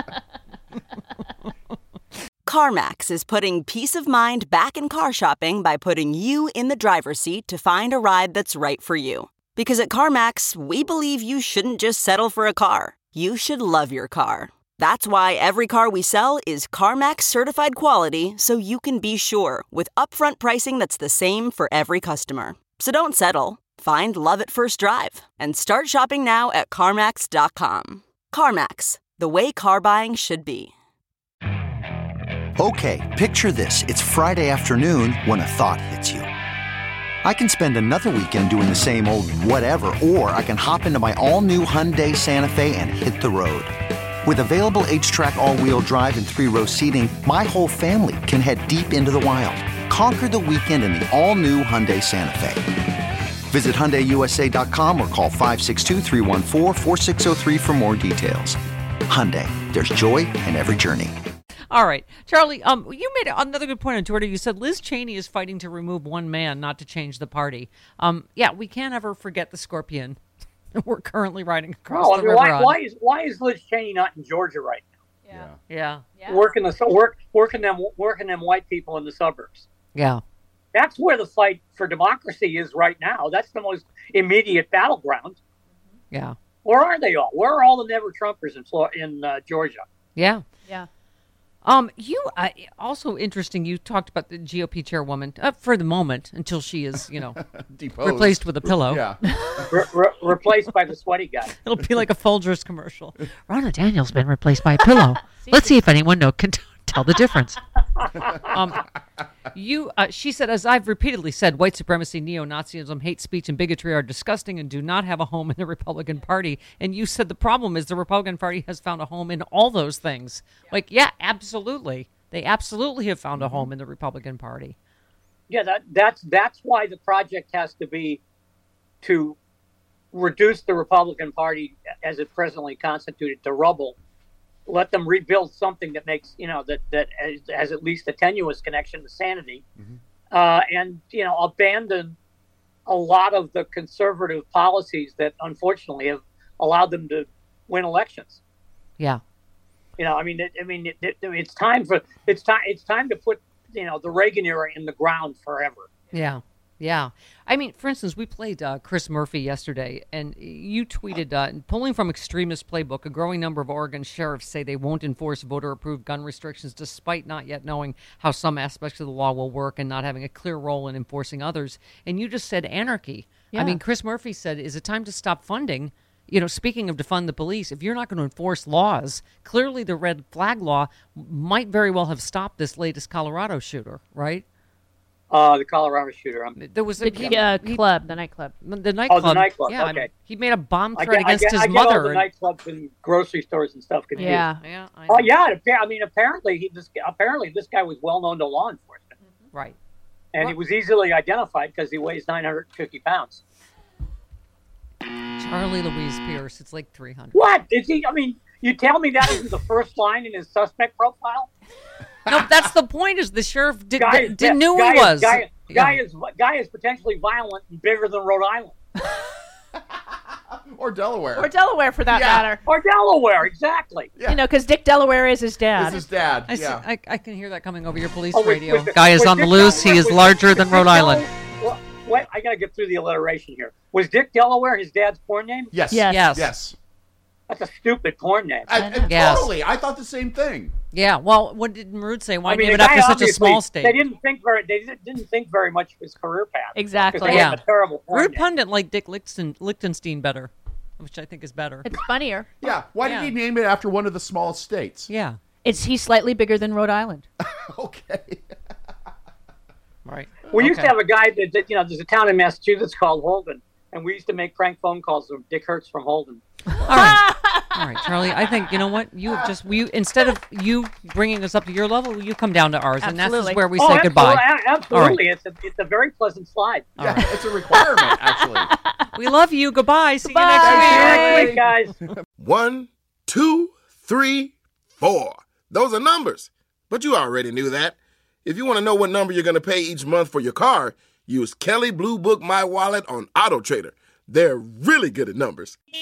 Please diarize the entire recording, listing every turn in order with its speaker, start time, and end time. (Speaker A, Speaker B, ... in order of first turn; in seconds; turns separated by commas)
Speaker A: 2.5-30.7, Speaker B: 32.6-36.2, Speaker B: 37.2-43.7, Speaker B: 44.2-52.6, Speaker B: 53.5-58.6, Speaker B: 59.1-61.1, Speaker C: 61.7-70.2, Speaker C: 70.7-72.7, Speaker D: 71.9-74.8, Speaker E: 75.3-75.6, Speaker C: 75.7-76.0, Speaker F: 76.1-76.4, Speaker D: 76.3-79.7, Speaker C: 79.9-80.2, Speaker D: 80.7-85.4, Speaker C: 86.1-86.3, Speaker D: 86.6-89.8, Speaker C: 90.1-90.4, Speaker C: 91.6-97.4, Speaker E: 97.4-99.2, Speaker C: 98.0-99.0, Speaker D: 99.7-101.5, Speaker C: 101.6-107.6, Speaker F: 105.2-105.8, Speaker C: 108.5-108.8, Speaker C: 109.5-124.8, Speaker E: 123.4-123.7, Speaker D: 125.5-128.2, Speaker D: 129.0-129.4, Speaker D: 130.1-133.9, Speaker D: 134.7-139.6, Speaker D: 140.3-142.2, Speaker D: 142.9-148.4, Speaker D: 150.0-155.9, Speaker C: 156.1-184.4, Speaker F: 173.5-173.8, Speaker D: 185.3-186.6, Speaker C: 186.6-188.1, Speaker F: 187.0-188.5, Speaker C: 188.6-192.2, Speaker D: 189.1-190.1, Speaker D: 190.9-194.4, Speaker C: 194.2-195.3, Speaker F: 194.2-194.6, Speaker D: 195.1-199.1, Speaker D: 200.3-203.4, Speaker C: 205.3-207.4, Speaker D: 207.3-211.5, Speaker C: 212.3-216.0, Speaker D: 214.0-218.7, Speaker E: 220.7-221.5, Speaker F: 221.3-222.6, Speaker E: 222.1-222.6, Speaker D: 222.6-224.1, Speaker E: 224.2-224.4, Speaker F: 224.2-226.0, Speaker E: 225.7-226.8, Speaker C: 226.5-231.2, Speaker D: 228.3-235.7, Speaker E: 235.7-236.8, Speaker F: 235.9-236.3, Speaker C: 236.1-236.5, Speaker D: 237.5-238.8, Speaker E: 238.7-240.7, Speaker F: 238.7-239.4, Speaker C: 239.1-239.5, Speaker C: 240.9-244.0, Speaker D: 242.4-248.4, Speaker F: 246.7-247.5, Speaker C: 247.3-251.9, Speaker F: 251.8-252.5, Speaker E: 252.6-255.1, Speaker C: 253.0-253.3, Speaker C: 255.1-255.4, Speaker F: 255.6-257.2, Speaker E: 257.5-258.4, Speaker C: 260.1-260.9, Speaker D: 260.5-266.4, Speaker C: 266.8-275.2, Speaker F: 266.9-267.8, Speaker F: 273.0-273.6, Speaker D: 273.8-276.9, Speaker C: 277.0-277.3, Speaker E: 277.0-278.7, Speaker F: 277.7-279.1, Speaker C: 279.1-281.5, Speaker F: 280.2-281.4, Speaker E: 280.6-282.2, Speaker D: 280.9-281.9, Speaker G: 282.4-295.8